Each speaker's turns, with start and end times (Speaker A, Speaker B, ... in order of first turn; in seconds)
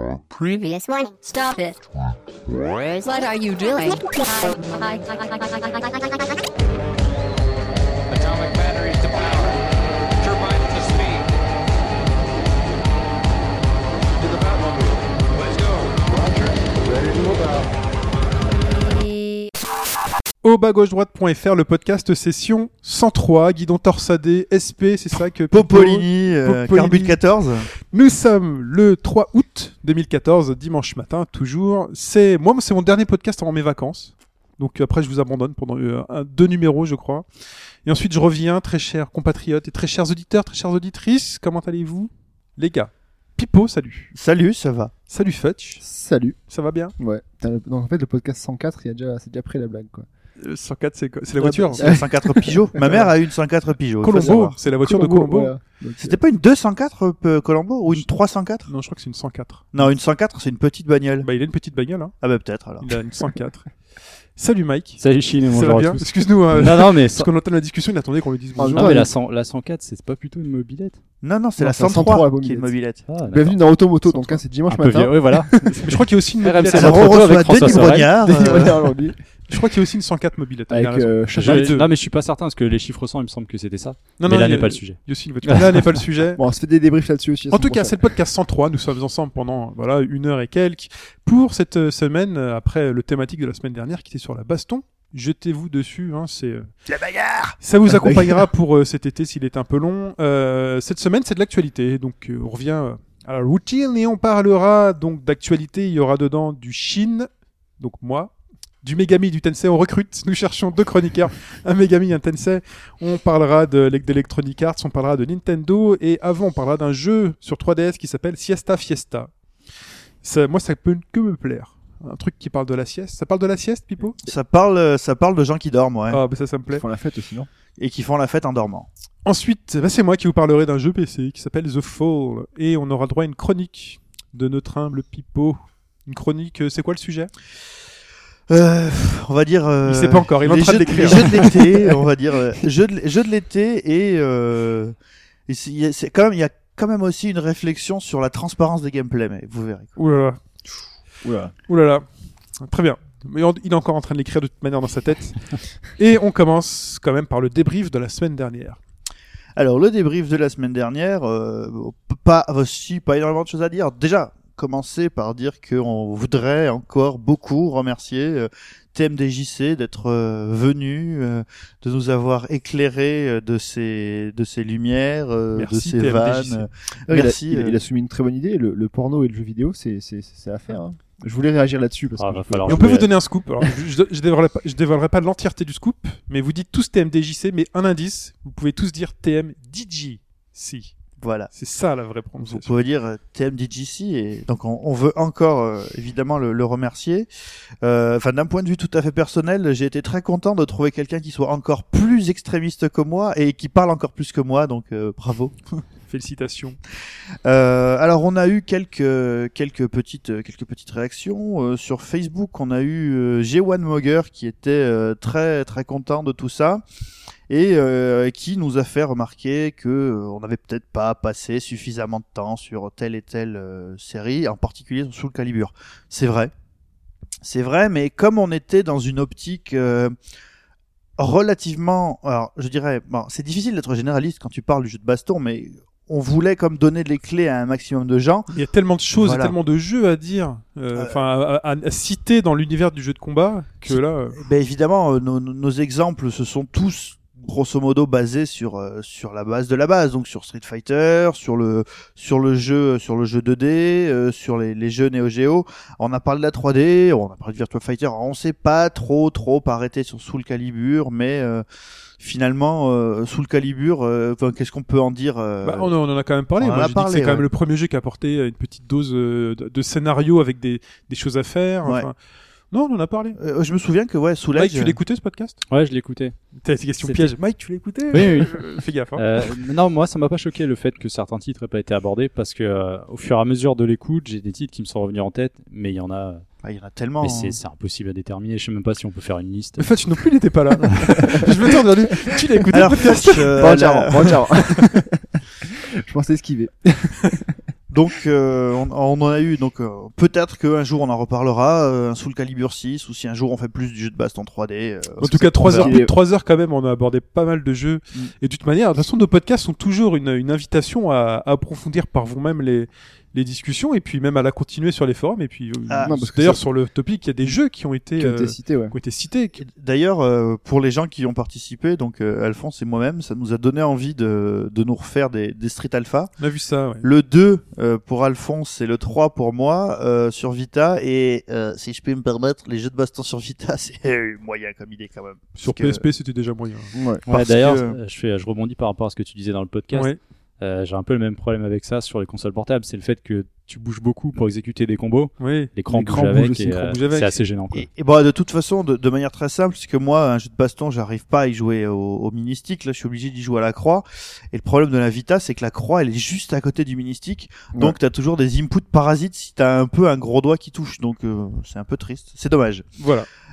Speaker A: 0.3-1.9, 2.5-6.5, 18.6-19.5
Speaker B: 8.1-9.6, 10.2-11.3, 14.1-17.7
Speaker C: 20.4-27.2, 27.9-37.2, 37.9-44.1, 45.1-45.8, 46.5-46.9, 50.4-52.0, 52.8-53.1, 54.0-55.5, 58.7-59.9, 61.2-62.2, 62.8-63.7, 64.4-69.1, 74.1-74.4, 75.8-77.8, 79.5-81.9, 84.2-86.4, 87.5-96.7, 97.6-107.3, 107.8-108.3, 108.8-119.3, 120.2-124.2, 126.1-126.9, 129.2-137.3, 139.8-141.7, 150.0-150.4, 151.7-152.1, 152.6-158.8, 175.5-176.7, 182.7-190.9, 191.5-192.8, 206.1-206.8, 238.5-244.4, 265.6-272.2, 272.7-273.4, 274.6-275.6, 276.6-279.2, 289.8-294.9, 305.2-319.6, 326.4-327.1, 335.6-336.9, 339.9-340.2, 345.4-347.4, 363.0-363.3
Speaker D: 25.5-27.7, 44.1-44.9, 51.8-54.6, 56.0-58.7, 59.7-61.3, 62.2-62.9, 71.2-73.0, 76.8-78.9, 96.9-97.6, 124.2-126.2, 127.8-128.9, 138.5-144.9, 145.5-149.9, 159.6-177.8, 191.2-191.5, 192.4-197.3, 197.8-205.6, 207.4-216.8, 217.5-226.5, 227.4-230.2, 231.2-238.5, 239.2-239.6, 243.9-261.6, 262.2-265.9, 266.6-267.5, 271.8-272.1, 273.4-275.0, 286.6-287.6, 292.7-294.4, 297.9-306.0, 315.9-316.1, 319.6-326.3, 327.0-336.0, 337.3-338.0, 347.7-362.9
Speaker E: 45.8-46.4, 47.0-50.1, 51.4-53.0, 54.6-56.2, 68.6-69.1, 71.6-72.7, 73.3-75.8, 77.6-79.2, 80.7-81.8, 86.4-88.1, 97.9-98.5, 126.7-127.5, 141.6-142.0, 151.2-151.5, 177.1-183.1, 293.6-297.6, 305.6-306.1, 316.0-316.6, 318.2-319.0, 336.9-337.2
Speaker F: 65.0-67.3, 68.8-71.0, 73.1-73.6, 74.7-75.8, 76.4-78.2, 81.3-85.8, 182.2-183.1, 275.7-276.4, 277.0-277.3, 278.1-286.4, 287.2-289.9, 337.3-347.9